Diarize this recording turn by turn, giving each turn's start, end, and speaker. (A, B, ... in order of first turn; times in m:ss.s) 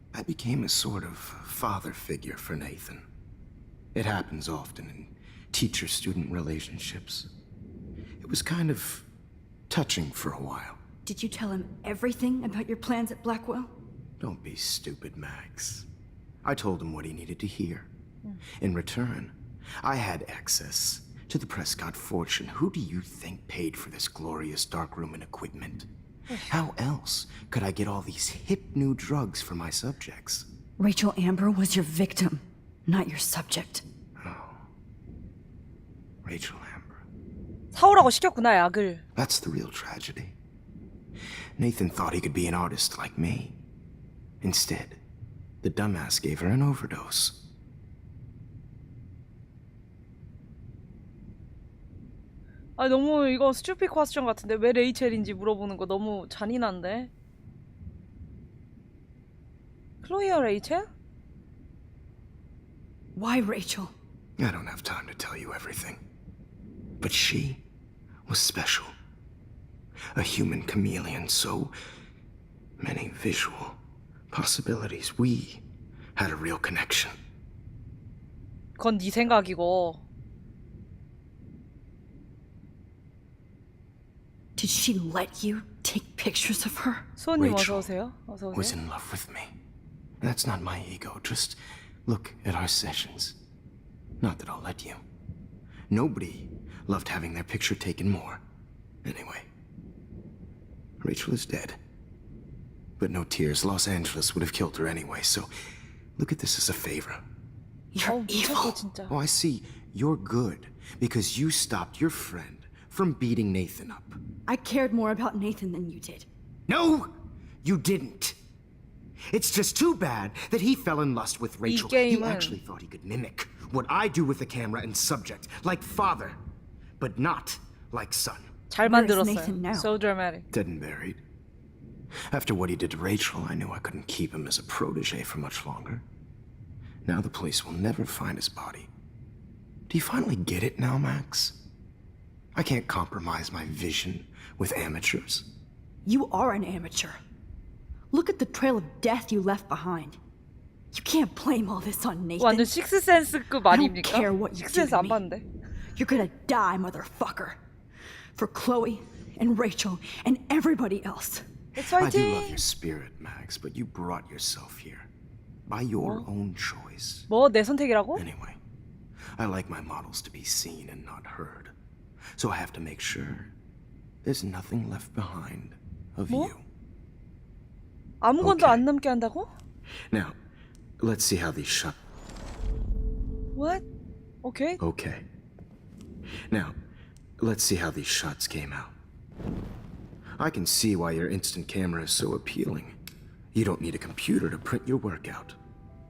0:00.1-0:03.0 A
0:03.9-0:07.3 A
0:08.2-0:09.0 A
0:09.7-0:10.8 A
0:11.0-0:13.8 B
0:14.2-0:15.9 A
0:16.4-0:17.9 A
0:18.6-0:25.9 A
0:26.4-0:30.5 A
0:30.8-0:33.8 B
0:34.2-0:34.6 A
0:36.2-0:37.0 A
0:37.7-0:39.0 C
0:39.2-0:40.3 A
0:41.6-0:43.6 A
0:44.4-0:45.0 A
0:45.6-0:47.4 A
0:52.8-0:57.1 C
1:00.0-1:00.9 C
1:03.1-1:03.9 B
1:04.4-1:06.0 A
1:07.0-1:07.6 A
1:08.2-1:08.9 A
1:10.1-1:11.7 A
1:12.8-1:13.8 A
1:14.3-1:15.6 A
1:16.2-1:17.2 A
1:18.8-1:20.0 C
1:24.6-1:27.0 B
1:27.2-1:28.7 C
1:27.4-1:27.9 A
1:28.5-1:29.5 A
1:30.2-1:33.4 A
1:34.2-1:35.0 A
1:35.9-1:38.4 A
1:39.0-1:39.5 A
1:41.0-1:41.8 A
1:43.0-1:45.5 A
1:46.2-1:47.2 A
1:47.9-1:48.8 B
1:48.0-1:49.1 C
1:49.1-1:54.2 A
1:54.4-1:56.3 B
1:56.7-1:58.4 A
1:59.3-2:06.4 A
2:01.6-2:02.6 C
2:07.0-2:08.5 A
2:08.7-2:10.4 C
2:08.8-2:09.9 B
2:10.5-2:11.2 A
2:12.3-2:16.0 A
2:17.0-2:18.9 A
2:19.9-2:21.6 A
2:22.5-2:25.5 A
2:26.0-2:27.2 B
2:28.1-2:30.2 B
2:30.9-2:32.7 B
2:32.4-2:35.4 C
2:33.7-2:35.2 B
2:35.9-2:37.6 B
2:38.4-2:41.4 B
2:41.8-2:42.6 C
2:41.9-2:45.1 A
2:45.6-2:47.3 A
2:46.0-2:46.3 C
2:47.3-2:48.2 C
2:48.1-2:48.6 A
2:49.3-2:51.7 A
2:52.4-2:53.5 A
2:54.2-2:56.6 A
2:58.2-2:59.5 C
2:58.4-2:58.8 A
3:00.1-3:00.4 A
3:01.0-3:02.0 A
3:03.6-3:03.8 C
3:04.4-3:04.8 C
3:04.8-3:05.2 A
3:06.5-3:06.8 A
3:07.4-3:08.9 A
3:10.4-3:12.9 A
3:13.5-3:15.6 A